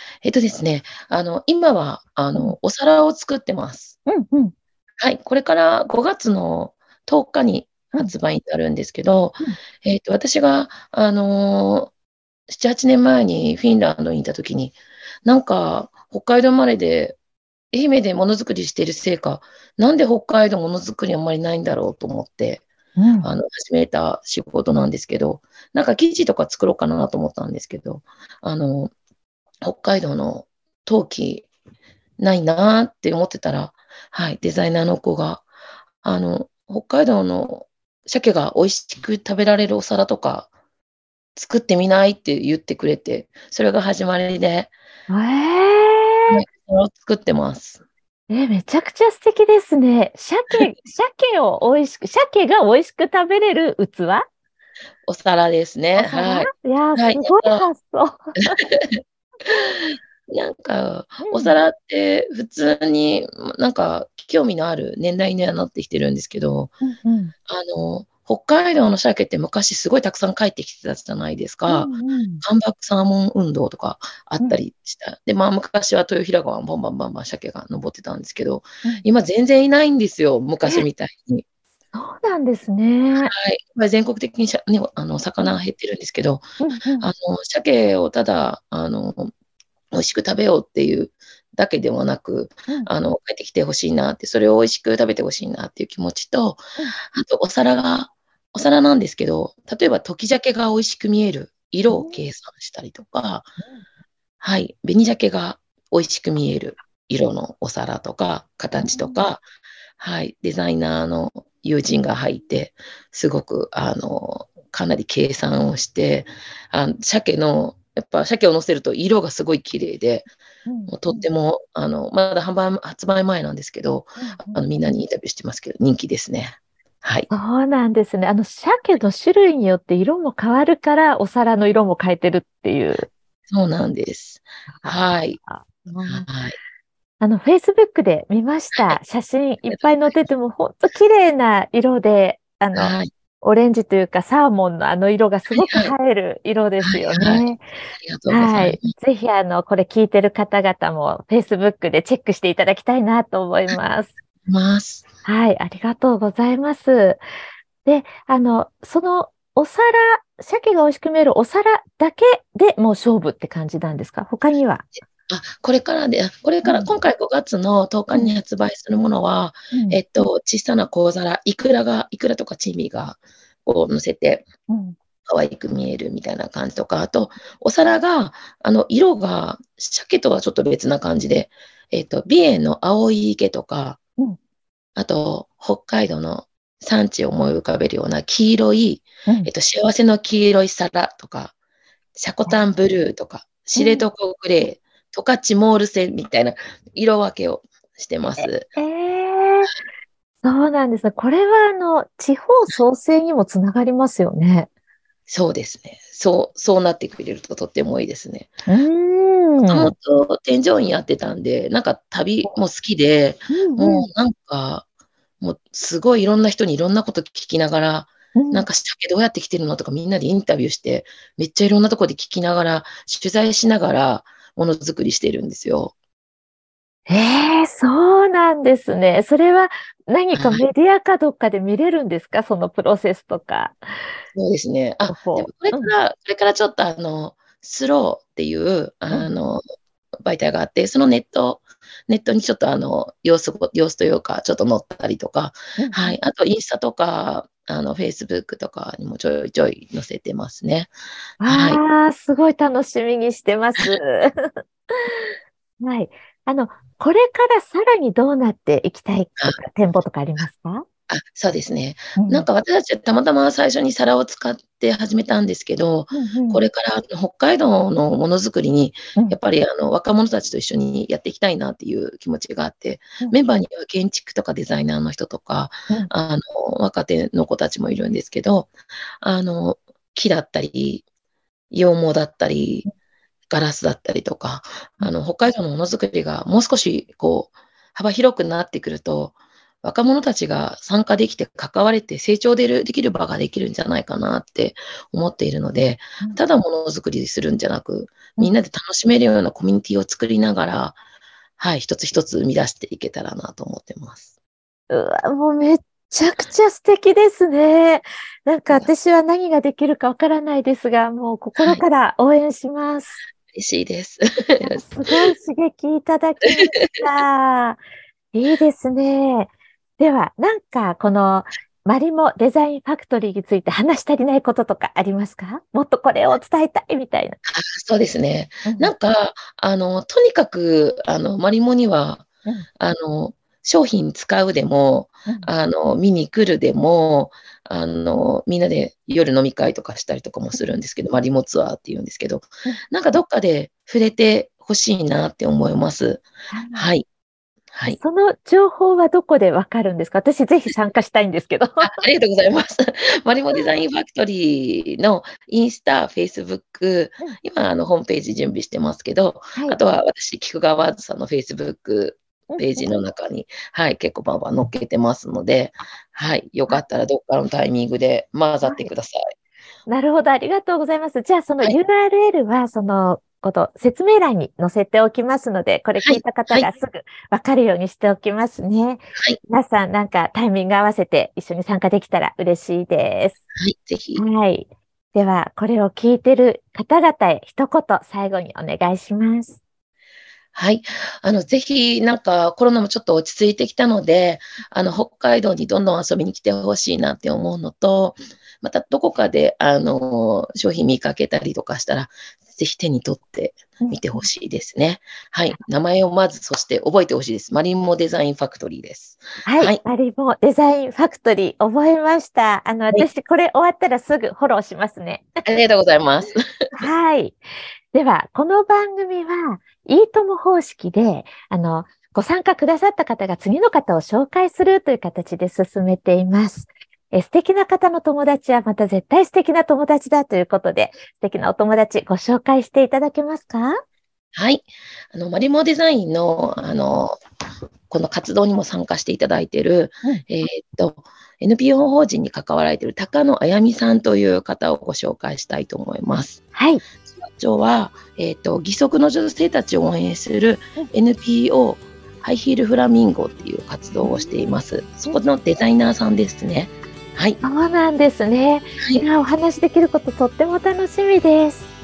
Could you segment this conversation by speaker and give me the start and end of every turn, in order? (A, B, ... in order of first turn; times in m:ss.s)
0:00.2-0:04.0 A
0:04.1-0:04.5 B
0:05.0-0:11.9 A
0:12.5-0:17.2 A
0:17.7-0:22.6 A
0:23.0-0:23.3 B
0:23.2-0:28.9 A
0:29.6-0:31.5 A
0:32.2-0:35.5 A
0:36.0-0:40.5 A
0:41.4-0:44.7 A
0:45.1-0:46.4 B
0:46.3-0:47.8 A
0:48.3-0:54.3 B
0:55.1-0:57.7 A
0:56.0-0:58.5 B
0:58.6-0:59.0 A
0:59.6-1:06.7 A
1:01.2-1:01.6 B
1:06.8-1:07.3 B
1:07.5-1:11.9 A
1:11.7-1:12.4 B
1:12.4-1:21.4 A
1:21.9-1:23.3 B
1:23.2-1:26.5 A
1:26.6-1:27.1 B
1:27.0-1:29.3 A
1:29.9-1:43.5 A
1:41.9-1:42.2 B
1:44.4-1:49.4 A
1:48.8-1:49.2 B
1:50.0-2:00.3 A
2:00.7-2:01.3 B
2:00.9-2:07.3 A
2:04.2-2:04.6 B
2:07.3-2:13.1 B
2:13.5-2:15.4 A
2:14.8-2:16.3 B
2:16.0-2:16.6 A
2:17.2-2:27.6 B
2:19.7-2:20.0 A
2:22.8-2:23.1 A
2:25.5-2:26.0 A
2:26.8-2:28.9 A
2:28.3-2:34.2 B
2:34.4-2:35.1 A
2:35.2-2:37.2 B
2:37.8-2:44.9 B
2:45.3-2:54.5 A
2:46.6-2:46.9 B
2:49.7-2:50.0 B
2:54.7-2:55.0 B
2:55.2-3:04.0 A
3:05.0-3:11.5 A
3:12.2-3:18.7 A
3:13.8-3:14.1 B
3:18.4-3:19.7 B
3:20.4-3:24.7 B
3:25.3-3:28.5 A
3:28.7-3:29.9 B
3:29.6-3:34.9 A
3:33.5-3:34.1 B
3:35.4-3:45.9 A
3:38.4-3:38.7 B
3:47.1-3:53.8 B
3:50.4-3:50.7 A
3:54.3-3:59.6 A
3:55.1-3:55.9 B
4:00.2-4:10.9 A
4:05.8-4:06.2 B
4:11.4-4:20.8 B
4:11.4-4:11.8 A
4:21.1-4:41.0 A
4:22.2-4:22.5 B
4:26.1-4:26.6 B
4:41.7-4:42.9 A
4:43.5-5:01.0 A
5:01.6-5:04.3 A
5:04.9-5:13.2 B
5:11.6-5:11.8 A
5:13.5-5:15.3 A
5:14.6-5:17.8 B
5:16.5-5:17.0 A
5:18.3-5:27.4 B
5:27.5-5:32.3 A
5:28.6-5:28.9 B
5:32.8-5:47.1 A
5:46.5-5:46.9 B
5:47.7-5:48.0 A
5:47.9-5:51.9 B
5:51.8-6:09.2 A
6:02.5-6:02.9 B
6:08.6-6:08.9 B
6:09.9-6:23.5 B
6:16.0-6:16.8 A
6:23.6-6:24.2 A
6:24.2-6:29.6 B
6:30.5-6:49.8 A
6:43.8-6:44.2 B
6:49.4-6:55.3 B
6:55.4-6:56.9 A
6:56.8-6:57.4 B
6:57.9-7:13.8 B
7:14.3-7:17.2 A
7:17.9-7:26.4 A
7:26.6-7:26.8 B
7:27.1-7:37.4 A
7:34.0-7:34.5 B
7:37.4-7:41.7 B
7:38.8-7:39.0 A